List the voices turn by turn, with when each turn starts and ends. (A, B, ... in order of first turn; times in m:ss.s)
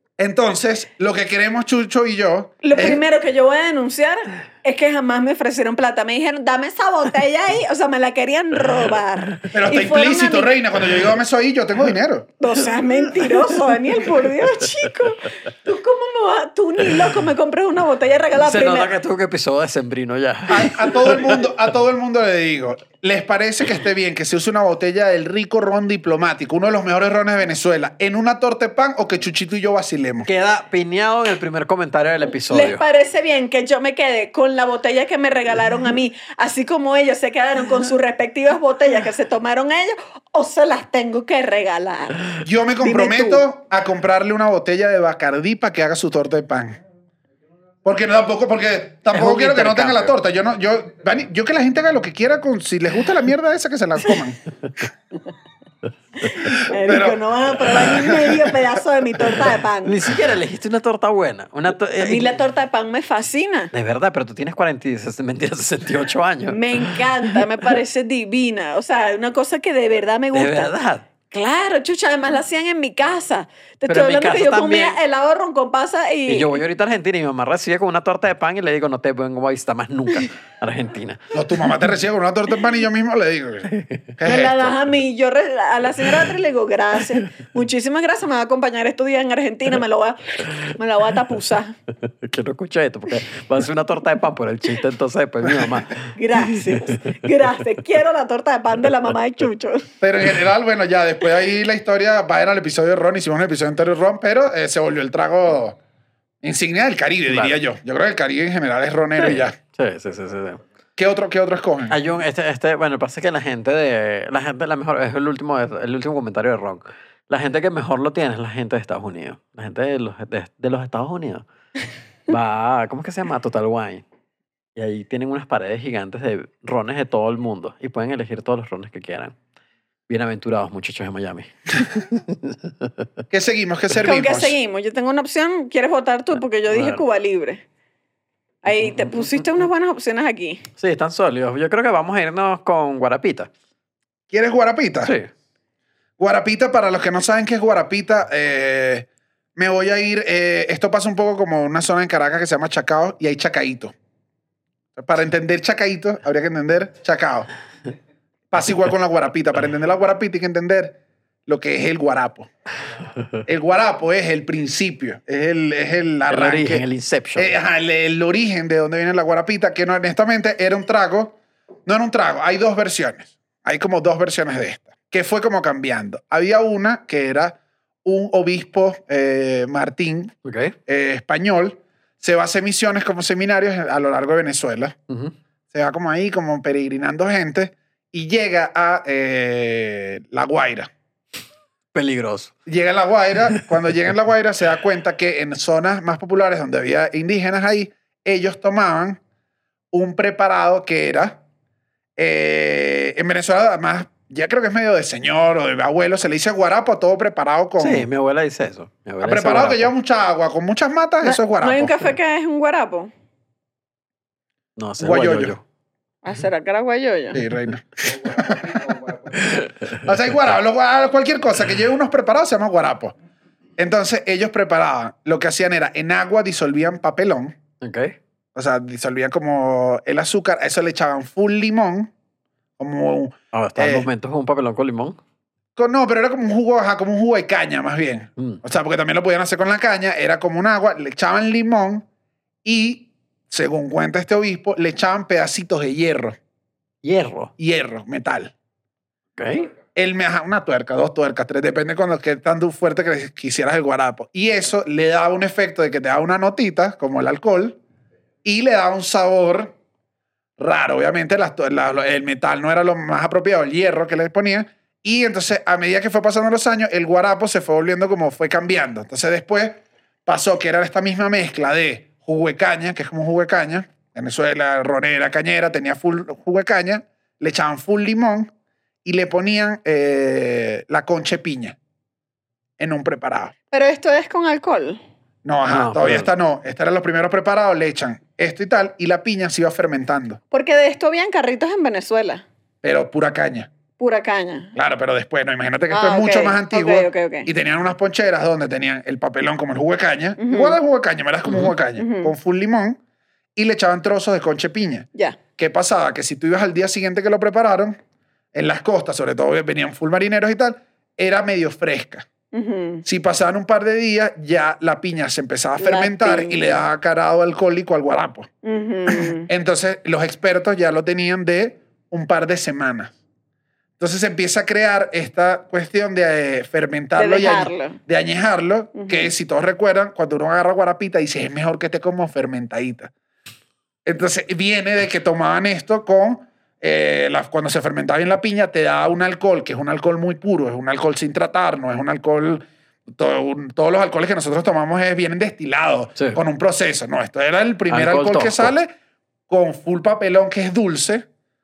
0:00.2-0:03.0 A
0:02.6-0:10.5 B
0:09.5-0:12.3 A
0:12.4-0:18.9 B
0:18.4-0:21.5 C
0:20.5-0:30.3 A
0:30.3-0:32.8 C
0:32.5-0:43.4 B
0:42.4-0:46.8 A
0:47.8-0:54.4 A
0:49.1-0:50.2 C
0:56.2-1:00.2 B
0:56.4-0:58.6 A
0:59.8-1:02.3 C
1:02.0-1:03.7 B
1:03.7-1:07.4 C
1:06.5-1:10.7 B
1:10.3-1:11.1 C
1:11.3-1:16.6 B
1:13.9-1:15.0 C
1:16.3-1:21.2 C
1:21.3-1:24.7 A
1:23.7-1:24.2 C
1:24.2-1:31.8 B
1:32.0-1:37.1 C
1:36.2-1:39.9 B
1:40.0-1:45.8 A
1:46.4-1:49.6 A
1:47.3-1:47.6 C
1:49.2-1:50.6 C
1:51.0-1:52.0 A
1:51.9-2:01.4 C
2:02.3-2:04.0 C
2:04.8-2:09.4 C
2:10.1-2:13.0 C
2:13.3-2:14.6 A
2:14.0-2:17.6 B
2:16.7-2:17.0 C
2:18.6-2:20.7 B
2:18.7-2:19.5 C
2:20.8-2:23.5 C
2:24.3-2:25.1 A
2:25.0-2:25.3 C
2:26.2-2:34.0 A
2:35.0-2:37.5 A
2:38.5-2:42.5 A
2:43.5-2:46.8 A
2:46.3-2:47.5 C
2:47.4-3:00.3 A
3:00.4-3:00.8 C
3:00.9-3:05.0 A
3:05.1-3:05.3 C
3:05.7-3:10.9 A
3:11.9-3:12.5 C
3:12.7-3:19.2 A
3:19.9-3:21.4 A
3:22.2-3:28.1 A
3:27.8-3:29.9 C
3:29.2-3:32.1 A
3:31.2-3:33.1 B
3:34.8-3:35.6 C
3:35.0-3:35.6 A
3:36.2-3:37.4 B
3:37.3-3:39.0 A
3:39.4-3:39.8 C
3:39.9-3:43.2 A
3:43.8-3:47.6 A
3:47.8-3:48.2 C
3:48.6-3:52.1 A
3:52.8-3:54.1 A
3:53.5-3:55.2 C
3:55.8-4:02.0 A
4:02.6-4:06.4 A
4:07.0-4:07.5 C
4:07.6-4:08.5 A
4:09.4-4:09.7 C
4:10.0-4:17.8 A
4:18.4-4:19.7 A
4:20.6-4:38.5 A
4:39.0-4:41.8 A
4:42.8-4:43.5 A
4:43.7-4:45.0 B
4:45.4-4:50.4 A
4:45.7-4:46.3 C
4:50.5-4:52.4 B
4:52.8-4:53.7 A
4:54.0-4:54.7 B
4:54.8-5:03.0 A
4:55.9-4:57.5 B
5:00.4-5:00.8 B
5:01.5-5:01.7 C
5:02.0-5:02.3 B
5:03.6-5:05.1 A
5:05.6-5:08.0 A
5:08.5-5:12.3 A
5:12.5-5:13.0 B
5:13.0-5:18.5 A
5:15.8-5:16.7 B
5:18.6-5:19.5 B
5:19.1-5:23.2 A
5:24.0-5:33.1 A
5:27.2-5:28.0 B
5:29.0-5:29.3 B
5:34.0-5:48.9 A
5:47.9-5:48.8 C
5:49.5-5:51.3 A